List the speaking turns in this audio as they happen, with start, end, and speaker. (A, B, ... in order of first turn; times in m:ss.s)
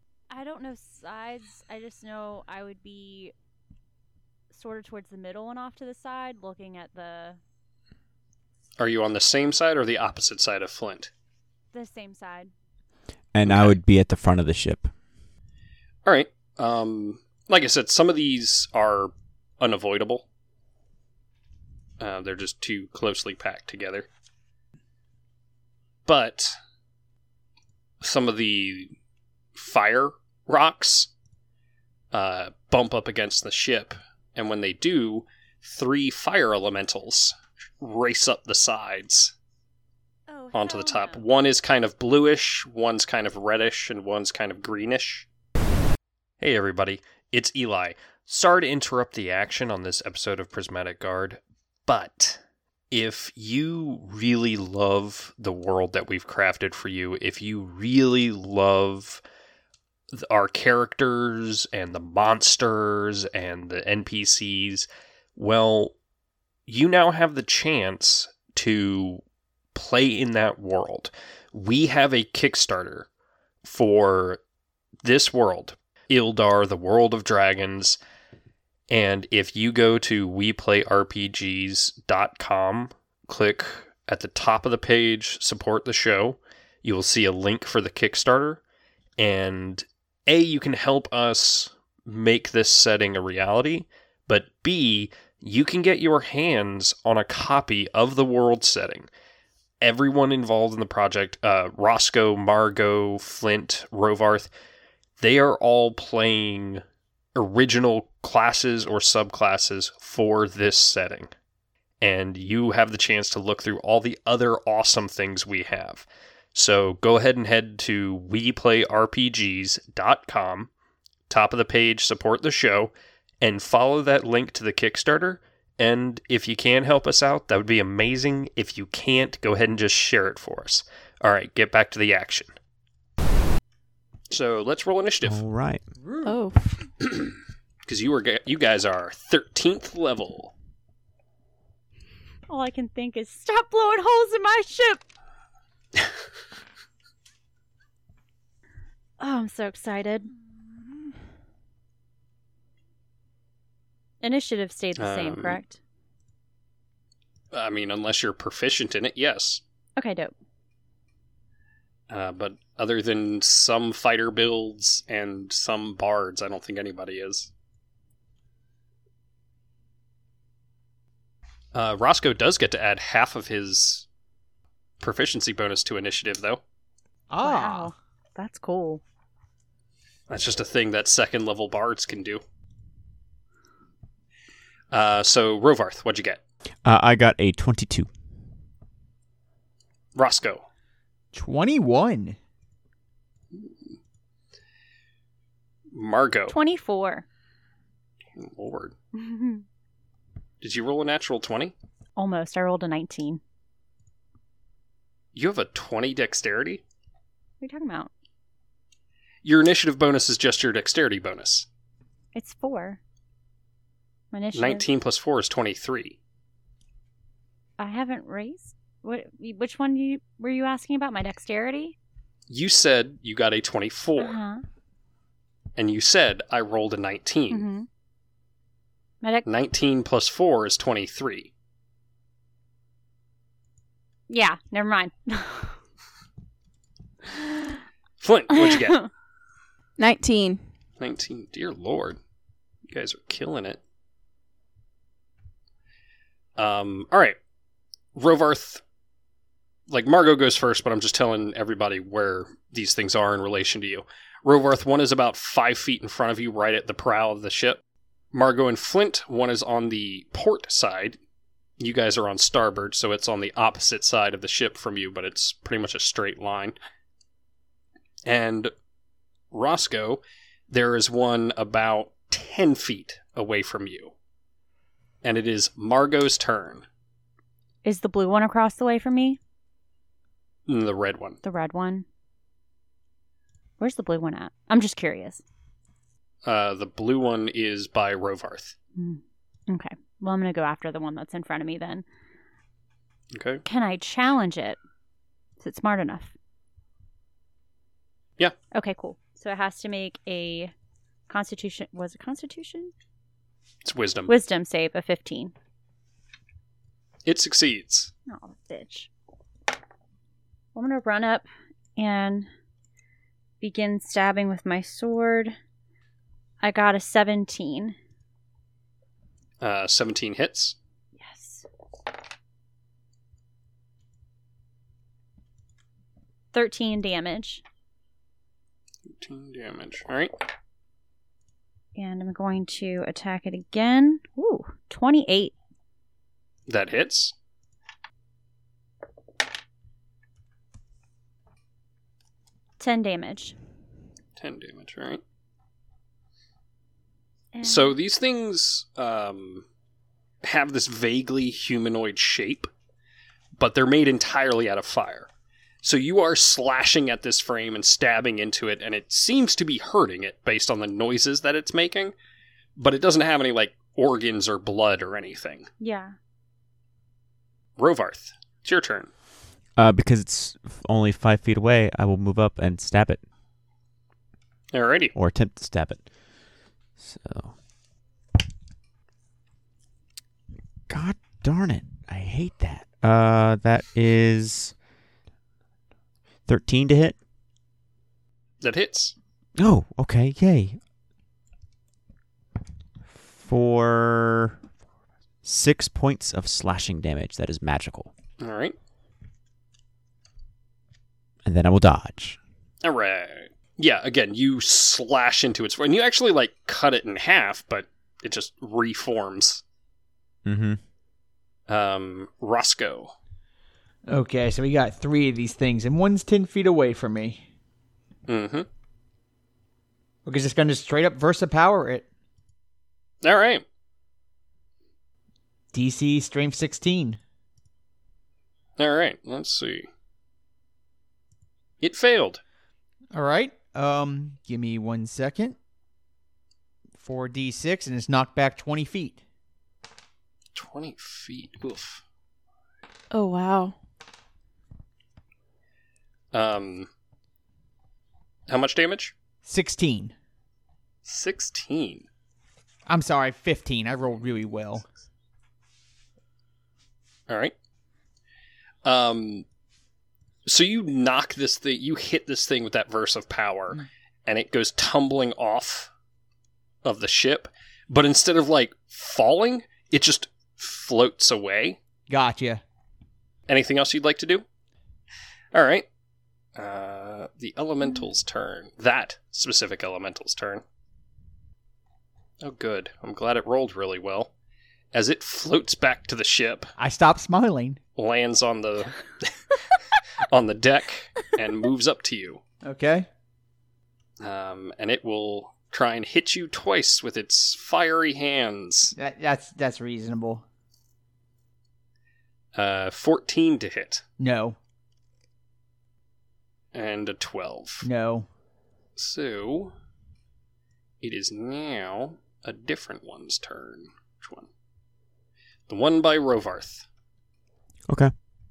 0:00.3-0:03.3 A
0:04.5-0:07.4 A
0:08.8-0:11.1 B
0:11.7-0:12.5 A
0:13.3-0:14.9 C
0:13.4-0:13.8 B
0:16.0-0:20.2 B
0:22.0-0:24.1 B
0:26.1-0:26.6 B
0:28.0-0:28.9 B
0:29.6-0:31.1 B
0:32.1-0:39.3 B
0:40.3-0:41.2 A
0:40.5-0:45.3 B
0:46.4-0:52.4 B
0:52.9-0:59.2 B
1:00.1-1:05.9 B
1:06.7-1:09.2 B
1:09.7-1:13.1 B
1:13.6-1:14.4 B
1:15.0-1:18.0 B
1:18.9-1:28.6 B
1:29.2-1:39.1 B
1:39.8-1:44.5 B
1:45.2-1:46.8 B
1:47.4-1:51.3 B
1:52.0-2:00.7 B
2:01.3-2:12.5 B
2:14.3-2:15.4 B
2:15.2-2:15.8 C
2:16.0-2:16.4 D
2:16.2-2:16.8 E
2:17.0-2:17.3 B
2:17.9-2:20.5 B
2:22.5-2:25.0 A
2:29.2-2:30.3 A
2:34.2-2:35.8 A
2:35.0-2:35.6 B
2:37.5-2:39.6 B
2:40.0-2:40.3 A
2:42.1-2:47.5 B
2:51.7-2:54.1 B
2:55.0-2:56.6 B
2:57.3-2:57.9 D
2:57.4-2:59.0 A
3:00.3-3:02.4 B
3:04.9-3:06.4 B
3:06.8-3:08.1 C
3:10.2-3:10.6 B
3:11.3-3:12.4 D
3:15.9-3:16.6 B
3:16.5-3:17.2 A
3:18.4-3:18.9 B
3:19.1-3:19.6 A
3:20.6-3:21.7 B
3:22.2-3:23.4 A
3:25.3-3:26.8 B
3:27.6-3:28.1 A
3:29.4-3:31.7 B
3:32.3-3:33.0 A
3:34.3-3:34.9 A
3:34.6-3:36.2 B
3:37.8-3:42.0 A
3:42.5-3:44.4 B
3:44.2-3:44.6 A
3:45.8-3:47.7 B
3:47.5-3:47.9 A
3:49.5-3:51.5 B
3:54.3-3:55.8 A
3:58.2-3:59.0 B
3:58.5-3:59.1 A
4:00.0-4:00.6 E
4:01.0-4:02.2 B
4:02.9-4:03.8 B
4:06.6-4:07.4 B
4:08.2-4:08.8 B
4:09.9-4:17.8 B
4:18.3-4:21.2 B
4:21.8-4:26.8 B
4:28.2-4:28.7 B
4:29.5-4:34.1 B
4:35.2-4:36.8 B
4:37.8-4:39.4 A
4:40.7-4:41.4 B
4:41.4-4:42.0 A
4:43.8-4:45.4 A
4:46.4-4:48.8 B
4:49.0-4:52.0 A
4:53.3-4:53.6 B
4:53.6-4:54.8 A
4:55.6-4:56.3 A
4:58.7-5:00.7 A
5:01.3-5:02.9 A
5:03.8-5:04.3 B
5:04.3-5:05.5 A
5:07.2-5:08.1 B
5:08.3-5:09.1 A
5:10.8-5:12.5 A
5:13.6-5:15.6 A
5:16.6-5:18.0 A
5:19.6-5:20.8 B
5:21.2-5:21.7 A
5:26.5-5:27.6 A
5:29.2-5:30.3 B
5:32.0-5:35.5 A
5:36.7-5:37.3 B
5:42.8-5:43.6 A
5:44.4-5:45.2 B
5:47.5-5:48.0 A
5:47.6-5:49.6 B
5:50.4-5:52.7 B
5:53.6-5:55.3 B
5:55.8-6:02.1 B
6:02.8-6:05.7 B
6:05.8-6:06.2 A
6:07.8-6:09.1 B
6:09.8-6:13.2 C
6:14.7-6:15.1 B
6:15.1-6:16.0 C
6:17.0-6:17.5 C
6:20.9-6:24.7 C
6:26.5-6:27.2 C
6:28.6-6:29.1 B
6:29.6-6:30.8 C
6:33.1-6:34.6 C
6:35.4-6:38.1 C
6:38.4-6:38.8 B
6:41.4-6:42.4 C
6:42.8-6:49.6 B
6:50.4-6:50.8 C
6:51.7-6:53.1 B
6:54.1-6:57.4 D
6:58.3-6:58.7 B
7:00.3-7:02.0 D
7:03.2-7:03.6 B
7:05.7-7:07.2 D
7:08.8-7:09.9 B
7:11.8-7:12.4 B
7:13.1-7:15.6 D
7:17.0-7:19.2 D
7:20.6-7:22.0 B
7:23.1-7:23.8 E
7:26.3-7:26.9 B
7:28.5-7:29.1 B
7:29.4-7:30.1 D
7:31.0-7:32.1 B
7:32.9-7:34.8 D
7:37.3-7:37.5 B
7:38.8-7:39.4 B
7:40.5-7:45.9 B
7:46.8-7:51.8 B
7:52.1-7:52.6 D
7:53.5-7:54.4 B
7:55.5-7:55.9 B
7:56.6-8:00.6 B
8:02.4-8:04.3 B
8:04.9-8:06.7 B
8:06.8-8:07.8 D
8:08.0-8:09.6 B
8:10.3-8:12.4 B
8:12.6-8:13.1 D
8:14.2-8:18.9 B
8:19.0-8:20.4 D
8:22.6-8:24.0 B
8:24.2-8:24.6 D
8:26.7-8:27.9 B
8:27.8-8:28.3 D
8:29.0-8:29.7 B
8:31.0-8:34.5 B
8:35.7-8:36.9 B